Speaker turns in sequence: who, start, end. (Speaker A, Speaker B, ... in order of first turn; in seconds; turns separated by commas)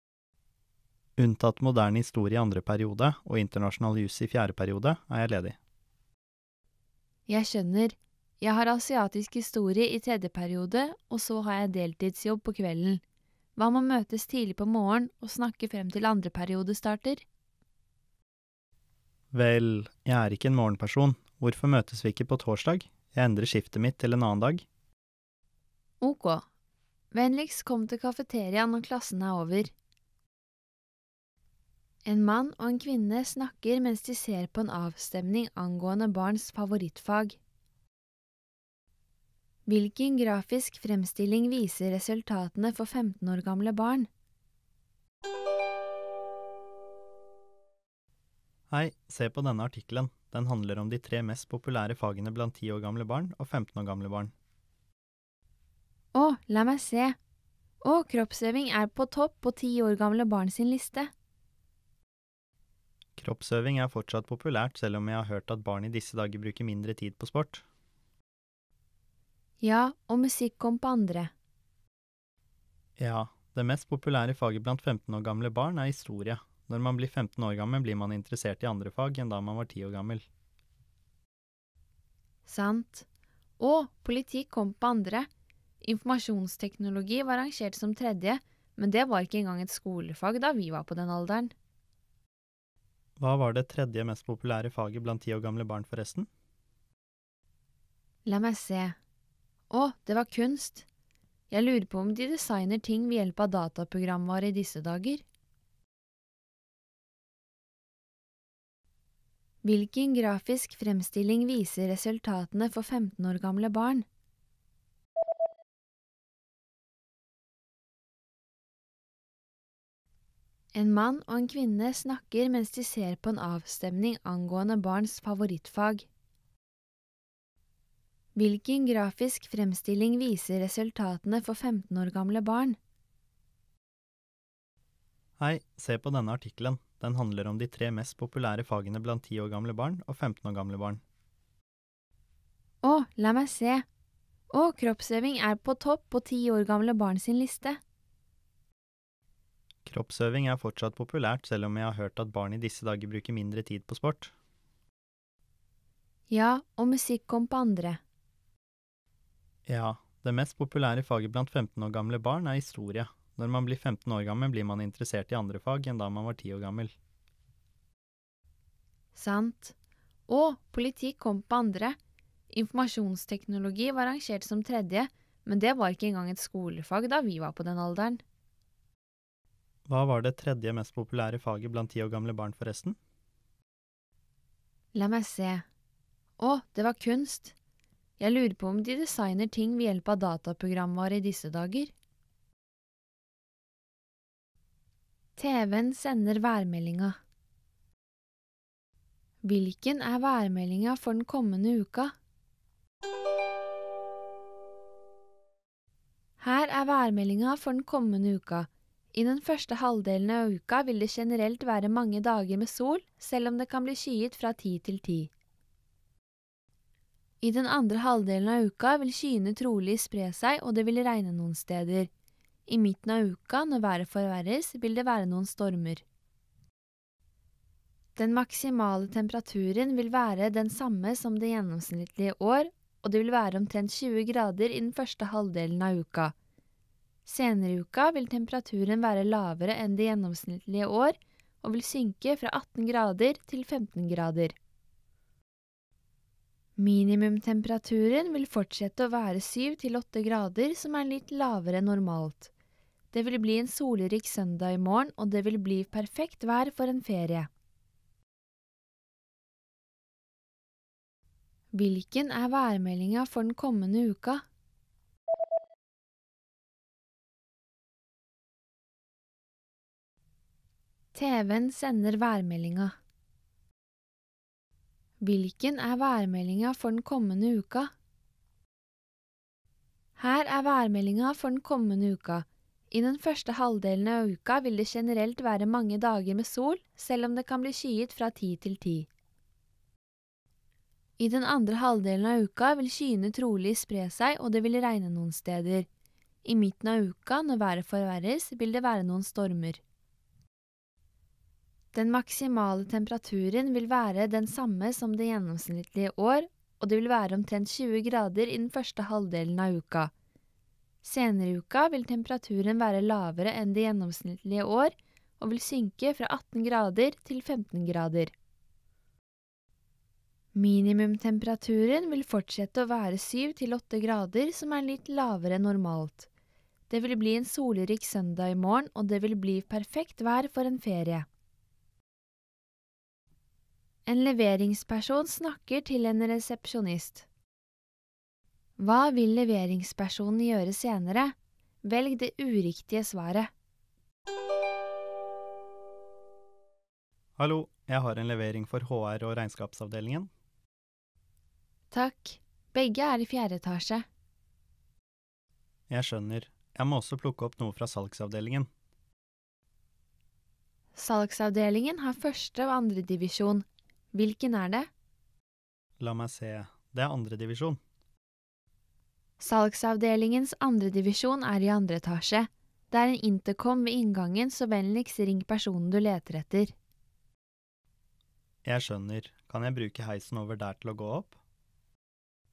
Speaker A: 1.2-5.6, Speaker B: 7.3-13.0, Speaker B: 13.6-17.2, Speaker A: 19.3-24.6, Speaker B: 26.0-26.4, Speaker B: 27.1-29.7, Speaker B: 32.0-37.4, Speaker B: 39.7-44.1, Speaker A: 48.7-54.3, Speaker B: 56.1-57.2, Speaker B: 57.8-61.1, Speaker A: 63.2-67.6, Speaker B: 69.6-71.3, Speaker A: 73.0-80.3, Speaker B: 82.5-83.1, Speaker B: 83.6-85.3, Speaker B: 85.8-91.5, Speaker A: 93.2-96.3, Speaker B: 98.3-99.0, Speaker B: 99.7-100.9, Speaker B: 101.5-105.2, Speaker B: 109.6-114.1, Speaker B: 120.7-126.1, Speaker B: 128.3-132.8, Speaker A: 135.4-141.0, Speaker B: 142.8-143.8, Speaker B: 144.5-147.8, Speaker A: 149.8-154.3, Speaker B: 156.3-158.0, Speaker A: 159.7-166.9, Speaker B: 169.2-169.8, Speaker B: 170.3-172.0, Speaker B: 172.5-178.2, Speaker A: 179.9-183.0, Speaker B: 184.9-185.7, Speaker B: 186.4-187.5, Speaker B: 188.2-191.9, Speaker B: 195.4-197.2, Speaker B: 199.4-202.1, Speaker B: 206.4-215.3, Speaker B: 217.4-222.1, Speaker B: 222.7-226.0, Speaker B: 228.2-236.3, Speaker B: 237.3-244.6, Speaker B: 246.8-252.5, Speaker B: 253.1-257.5, Speaker B: 261.7-264.4, Speaker B: 271.1-273.0, Speaker B: 275.2-277.9, Speaker B: 280.2-289.1, Speaker B: 291.2-295.9, Speaker B: 296.4-299.8, Speaker B: 301.9-310.1, Speaker B: 311.0-318.3, Speaker B: 320.5-326.3, Speaker B: 326.9-331.3, Speaker B: 334.1-337.3, Speaker B: 338.8-343.5, Speaker A: 347.4-350.3, Speaker B: 351.9-354.1, Speaker A: 355.9-358.7, Speaker B: 361.0-364.9, Speaker A: 366.0-367.8, Speaker B: 369.4-376.7, Speaker A: 378.6-381.4